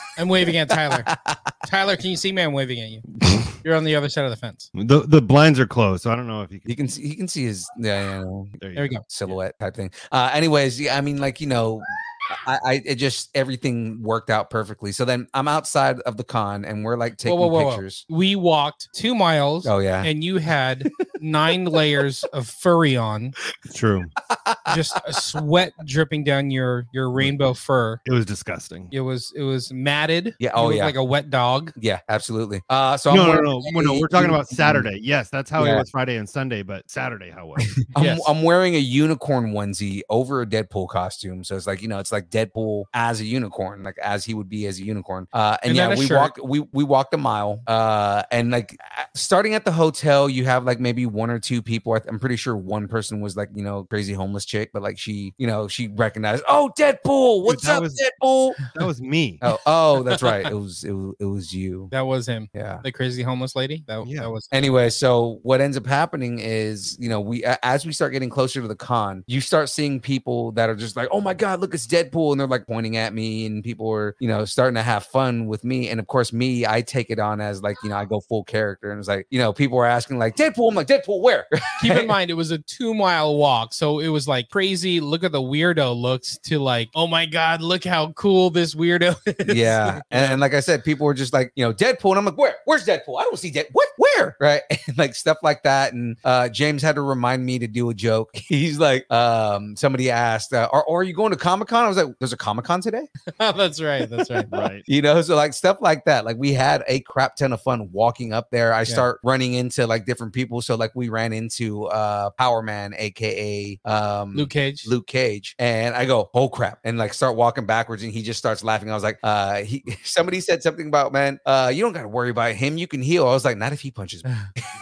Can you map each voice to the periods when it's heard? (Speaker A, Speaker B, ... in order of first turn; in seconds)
Speaker A: 0.2-1.1, 1.7-3.1, 3.6-4.7, 8.8-9.0, 17.2-23.4, 24.7-28.0, 28.9-31.8, 38.0-38.3, 45.7-46.3, 60.1-60.5, 61.9-64.5, 81.8-90.4, 103.3-104.5, 114.3-114.9
Speaker B: 0.7-1.5, 6.7-8.6, 9.1-18.0, 19.6-20.1, 24.3-25.2, 30.4-31.0, 31.8-34.9, 35.6-35.9, 37.9-58.6, 59.4-61.9, 62.5-62.8, 64.5-82.1, 89.5-103.1, 104.3-124.3
Speaker C: 4.8-6.7, 8.6-9.4, 23.7-24.1, 28.1-28.9, 33.1-37.8, 57.5-58.0, 58.7-59.4, 64.0-64.3, 104.5-104.8